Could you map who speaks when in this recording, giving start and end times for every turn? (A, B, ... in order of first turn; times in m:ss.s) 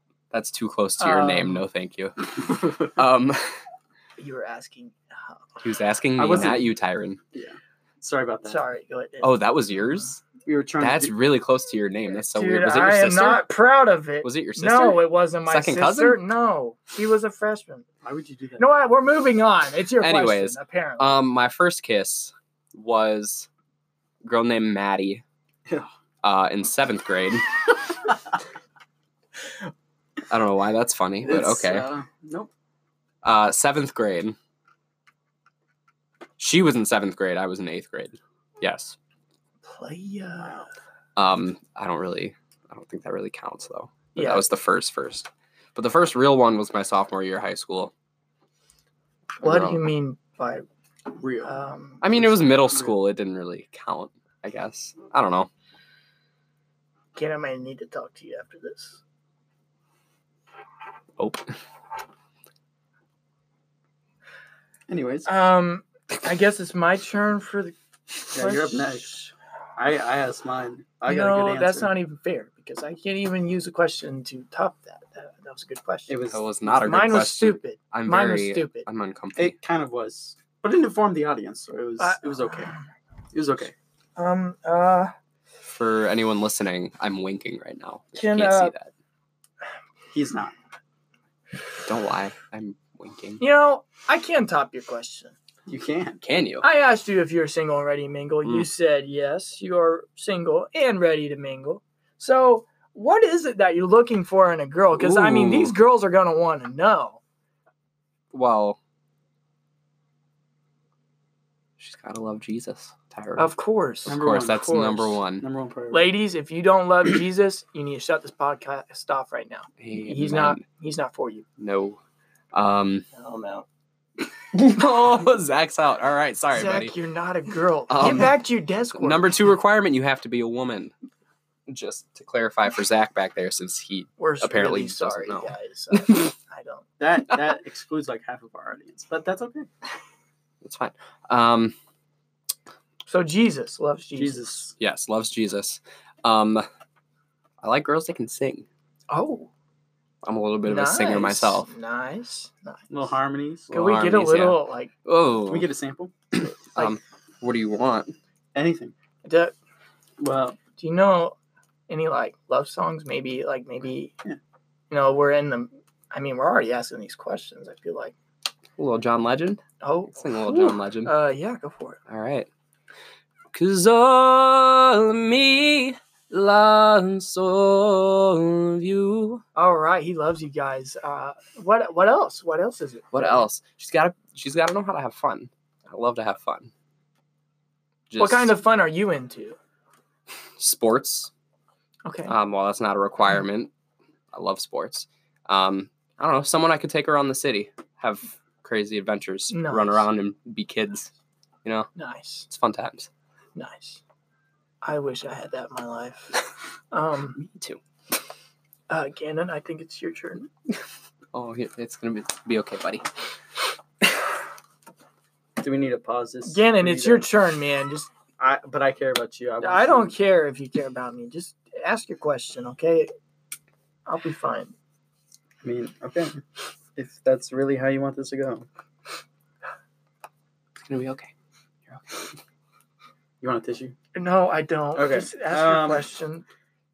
0:00.3-0:03.5 A
0:01.0-0:01.6 B
0:04.2-0:05.4 B
0:05.6-0:07.2 A
0:06.2-0:06.7 C
0:07.3-0:08.6 C
0:08.4-0:09.4 B
0:09.2-0:10.2 A
0:10.4-0:11.1 C
0:10.8-0:13.4 A
0:12.3-0:17.8 B
0:14.2-0:16.2 A
0:18.0-0:18.7 C
0:18.6-0:21.2 B
0:20.0-0:23.5 A
0:24.2-0:25.2 A
0:26.2-0:27.8 A
0:30.3-0:31.9 A
0:31.2-0:32.5 C
0:33.2-0:34.4 A
0:36.4-0:39.0 A
0:39.6-0:40.7 B
0:41.2-0:47.9 A
0:44.1-0:44.4 B
0:49.4-0:49.9 A
0:49.4-0:50.6 B
0:51.1-0:51.5 C
0:51.4-0:52.2 B
0:52.0-0:55.5 A
0:57.1-0:59.0 B
1:01.2-1:01.5 A
1:04.9-1:05.3 C
1:05.2-1:09.2 B
1:08.3-1:11.9 C
1:11.0-1:18.9 B
1:16.1-1:17.2 C
1:16.3-1:19.6 A
1:19.4-1:22.7 C
1:22.0-1:22.9 B
1:23.3-1:23.7 C
1:24.2-1:25.1 B
1:25.7-1:28.9 A
1:28.1-1:28.7 B
1:30.1-1:30.5 C
1:31.8-1:33.4 A
1:33.4-1:35.3 B
1:35.7-1:36.2 C
1:36.2-1:36.6 A
1:36.6-1:47.2 B
1:44.9-1:45.8 A
1:48.3-1:48.8 A
1:51.8-1:53.5 A
1:53.4-1:54.2 B
1:54.0-1:55.5 A
1:54.1-1:56.1 C
1:54.8-1:55.1 B
1:55.9-2:01.4 B
1:59.8-2:00.6 A
2:01.6-2:02.0 A
2:02.5-2:03.1 A
2:03.2-2:03.6 B
2:04.5-2:07.0 A
2:06.5-2:09.3 B
2:07.9-2:10.9 A
2:11.7-2:16.3 A
2:14.2-2:16.9 B
2:17.0-2:19.7 C
2:20.6-2:21.8 A
2:23.1-2:24.6 B
2:24.2-2:24.7 C
2:24.8-2:26.6 A
2:27.6-2:28.6 A
2:29.1-2:29.5 B
2:30.2-2:31.7 A
2:30.6-2:33.0 B
2:32.9-2:33.7 C
2:33.7-2:35.7 A
2:33.7-2:34.9 B
2:35.5-2:36.1 C
2:36.3-2:38.1 A
2:38.5-2:38.9 C
2:39.2-2:39.5 B
2:40.2-2:40.6 C
2:40.8-2:41.4 B
2:41.9-2:44.1 B
2:44.9-2:48.1 B
2:48.8-2:49.6 A
2:49.8-2:52.0 B
2:50.1-2:51.1 A
2:52.1-2:52.5 A
2:53.5-2:59.4 A
2:59.6-3:03.5 B
3:03.1-3:06.7 A
3:08.1-3:08.5 A
3:08.2-3:09.6 B
3:10.6-3:11.3 A
3:12.0-3:12.3 B
3:12.3-3:13.7 A
3:14.3-3:21.1 A
3:19.5-3:20.0 B
3:22.0-3:22.5 B
3:22.5-3:23.1 A
3:23.6-3:24.0 B
3:24.8-3:26.4 B
3:26.9-3:27.4 B
3:27.4-3:27.8 A
3:28.9-3:30.5 B
3:31.3-3:33.0 A
3:35.6-3:37.3 C
3:36.5-3:38.1 B
3:38.4-3:40.1 C
3:39.6-3:43.1 B
3:44.0-3:44.7 B
3:45.6-3:46.4 C
3:47.0-3:48.7 C
3:50.8-3:51.3 A
3:51.9-3:52.3 A
3:53.4-3:54.0 C
3:54.1-3:56.4 B
3:55.0-3:56.1 C